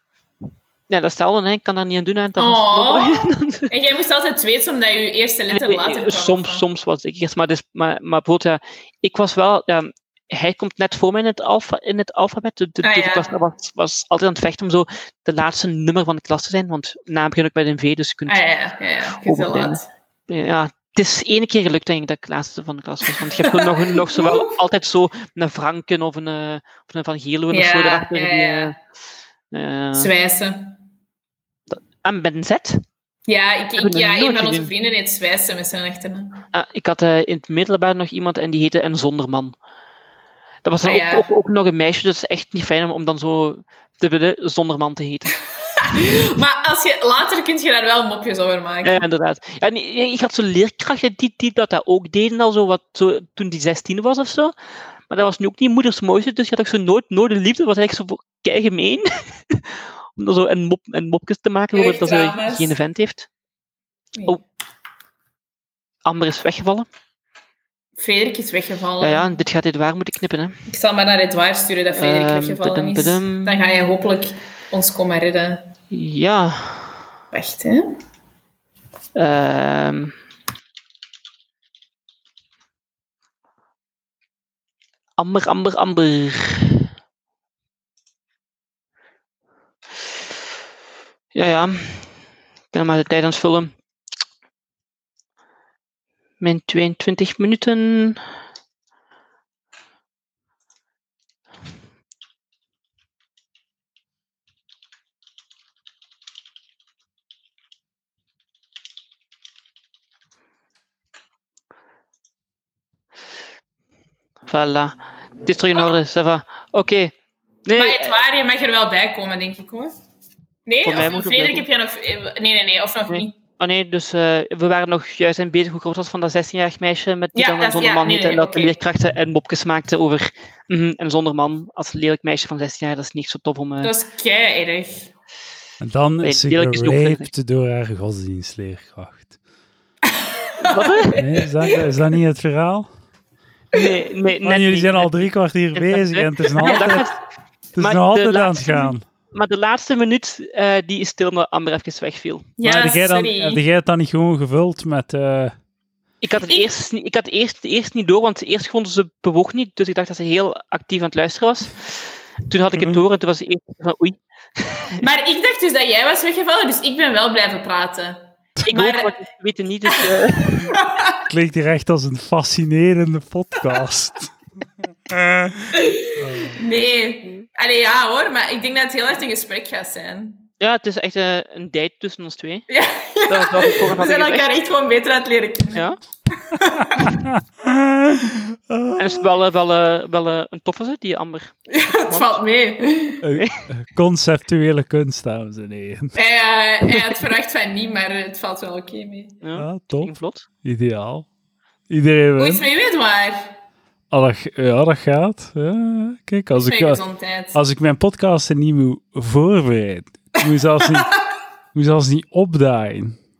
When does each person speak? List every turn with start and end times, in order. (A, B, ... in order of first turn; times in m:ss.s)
0:00.9-0:03.7 A
0:02.4-0:06.6 B
0:05.5-0:18.4 A
0:12.8-0:13.3 B
0:18.3-0:19.9 B
0:19.1-0:28.7 A
0:23.1-0:24.5 B
0:27.5-0:28.7 B
0:29.5-0:30.1 A
0:29.9-0:30.8 B
0:31.7-0:32.8 A
0:33.3-0:36.4 B
0:33.8-0:34.7 A
0:36.5-0:39.5 A
0:40.6-0:45.3 A
0:40.8-0:41.3 B
0:45.8-0:49.0 B
0:48.8-0:54.5 A
0:55.1-1:03.3 A
1:01.7-1:02.7 B
1:06.0-1:06.9 A
1:08.0-1:09.3 B
1:09.0-1:10.6 A
1:10.7-1:15.7 B
1:11.9-1:13.6 A
1:15.9-1:16.9 A
1:17.3-1:18.0 B
1:19.1-1:20.1 A
1:25.2-1:26.9 A
1:31.3-1:32.1 A
1:32.7-1:33.8 A
1:36.4-1:38.2 A
1:54.5-1:57.1 A
1:57.6-1:58.2 A
1:57.8-1:59.9 B
2:00.6-2:03.4 B
2:00.8-2:01.6 A
2:03.1-2:13.9 A
2:07.3-2:08.8 B
2:13.8-2:15.1 B
2:15.8-2:19.3 C
2:16.2-2:17.3 A
2:20.0-2:21.9 B
2:20.6-2:21.2 A
2:21.1-2:22.9 C
2:23.7-2:27.2 A
2:24.4-2:27.1 C
2:26.7-2:27.0 B
2:27.7-2:29.0 C
2:27.8-2:32.5 A
2:32.6-2:33.6 B
2:32.6-2:35.5 C
2:36.2-2:45.0 A
2:45.0-2:49.1 B
2:48.6-2:50.8 A
2:49.9-2:51.2 B
2:51.3-2:54.3 C
2:55.1-2:56.6 C
2:55.7-3:00.4 B
3:00.6-3:02.7 A
3:02.7-3:07.1 B
3:03.3-3:04.5 A
3:06.9-3:09.2 C
3:09.0-3:12.3 A
3:11.7-3:13.2 B
3:13.2-3:16.1 C
3:13.3-3:13.6 A
3:16.1-3:19.4 B
3:19.4-3:20.5 A
3:19.6-3:21.3 C
3:21.9-3:22.6 C
3:22.4-3:23.5 B
3:24.1-3:27.0 C
3:26.6-3:27.6 B
3:27.5-3:31.2 C
3:30.8-3:31.1 B
3:31.7-3:33.2 C